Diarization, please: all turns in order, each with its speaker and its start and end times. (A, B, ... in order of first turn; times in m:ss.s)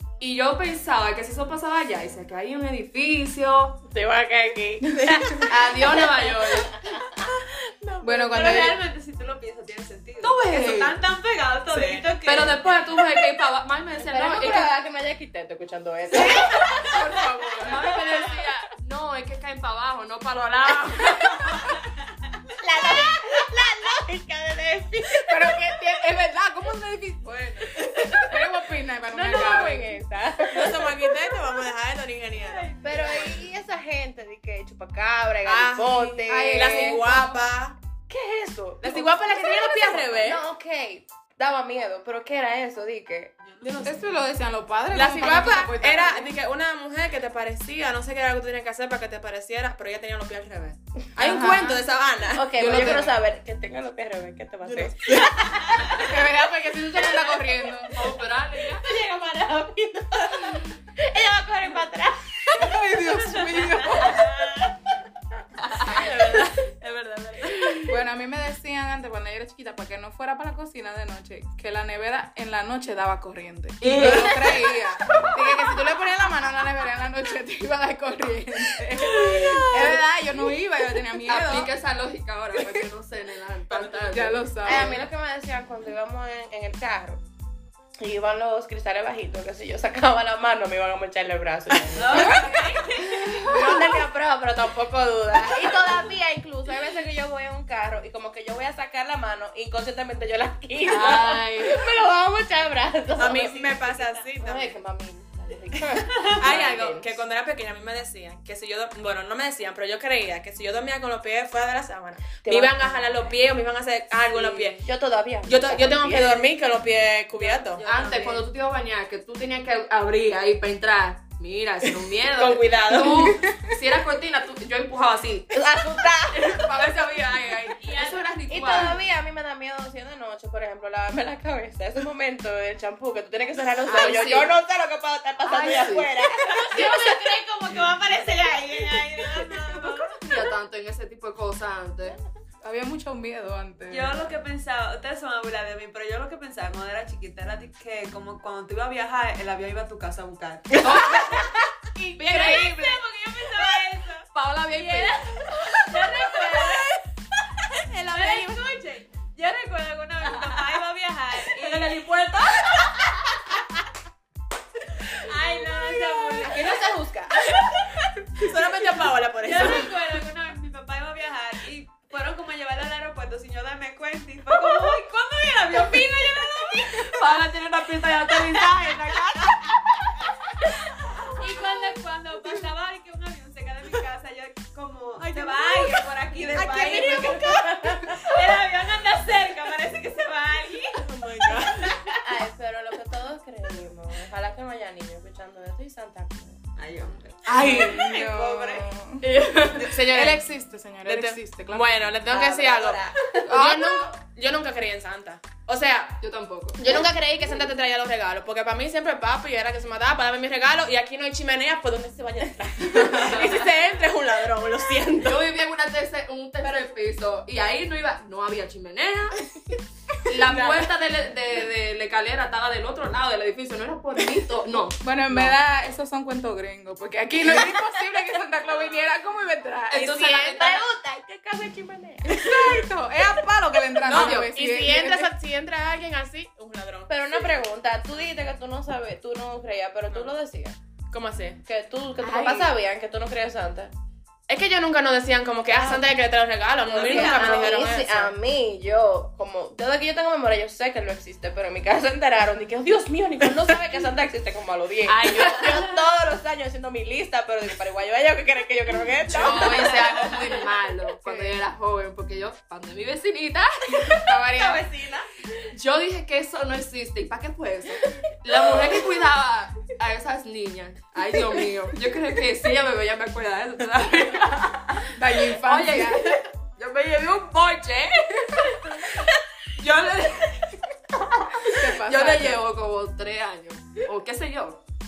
0:00.2-0:03.8 A
0:03.9-0:08.6 B
0:05.5-0:06.8 A
0:08.0-0:08.8 C
0:08.3-0:12.7 D
0:10.2-0:11.0 A
0:11.7-0:12.0 E
0:12.2-0:14.7 A
0:14.0-0:17.1 B
0:16.2-0:21.7 A
0:16.8-0:17.6 C
0:22.6-0:25.9 B
0:25.2-0:30.0 C
0:27.8-0:28.4 B
0:29.1-0:31.4 B
0:30.5-0:32.8 E
0:32.4-0:33.4 D
0:32.7-0:37.1 B
0:35.4-0:37.8 E
0:36.3-0:37.3 C
0:38.1-0:43.3 B
0:38.8-0:40.4 E
0:43.4-0:43.9 D
0:43.6-0:44.2 E
0:43.8-0:46.3 C
0:44.9-0:53.0 E
0:51.2-0:51.8 C
0:52.3-0:56.0 B
0:52.5-0:53.1 C
0:54.6-0:56.0 E
0:55.9-0:58.0 C
0:57.9-0:58.8 A
0:58.7-1:02.8 B
1:02.5-1:04.3 C
1:04.0-1:04.7 B
1:05.8-1:07.8 B
1:07.8-1:21.7 C
1:13.8-1:14.6 A
1:14.0-1:14.5 B
1:21.2-1:24.7 A
1:24.0-1:25.0 C
1:24.6-1:27.2 B
1:28.0-1:32.8 B
1:31.9-1:33.2 D
1:32.2-1:32.4 C
1:33.3-1:33.6 C
1:33.4-1:47.2 B
1:40.8-1:41.8 A
1:43.2-1:44.8 E
1:46.1-1:54.8 E
1:52.4-1:53.4 B
1:54.3-1:56.5 B
1:55.4-1:57.8 E
1:57.3-1:58.4 D
1:57.8-2:05.5 A
2:02.3-2:03.4 E
2:03.0-2:03.7 C
2:05.5-2:06.5 B
2:06.3-2:09.0 A
2:07.8-2:08.4 D
2:08.5-2:17.8 B
2:13.9-2:14.5 A
2:15.4-2:16.1 A
2:16.4-2:20.2 D
2:18.3-2:19.9 B
2:20.1-2:22.2 A
2:22.6-2:24.3 C
2:23.9-2:31.5 D
2:30.8-2:31.5 A
2:32.0-2:32.6 B
2:32.2-2:33.0 A
2:32.2-2:36.9 D
2:34.3-2:35.2 A
2:38.0-2:43.3 D
2:38.0-2:38.6 E
2:45.1-2:47.9 D
2:46.4-2:47.4 B
2:48.4-2:49.9 E
2:49.4-2:59.8 D
2:56.9-2:58.9 A
3:01.3-3:12.2 D
3:05.2-3:08.2 E
3:06.6-3:08.2 B
3:11.0-3:11.9 E
3:12.2-3:16.6 B
3:16.8-3:18.9 D
3:17.4-3:18.2 E
3:17.5-3:22.2 C
3:19.2-3:19.9 A
3:19.6-3:20.5 E
3:21.0-3:26.2 E
3:22.2-3:23.3 B
3:23.4-3:24.1 C
3:26.2-3:26.8 A
3:26.8-3:35.5 E
3:32.9-3:33.6 A
3:35.2-3:39.4 A
3:40.2-3:45.5 A
3:40.4-3:40.9 E
3:45.0-3:50.5 C
3:49.9-3:50.8 A
3:50.2-3:52.8 B
3:52.2-3:55.3 C
3:52.5-3:52.8 E
3:54.1-3:54.5 A
3:54.1-3:57.5 E
3:57.1-4:00.8 B
4:01.1-4:01.6 E
4:01.6-4:03.9 B
4:02.2-4:02.7 A
4:04.5-4:08.3 E
4:05.7-4:06.1 B
4:06.9-4:08.0 D
4:06.9-4:20.2 B
4:15.0-4:15.8 A
4:19.3-4:24.7 A
4:24.2-4:25.2 B
4:25.7-4:40.7 A
4:35.1-4:36.3 C
4:41.3-4:44.8 A
4:41.6-4:42.6 C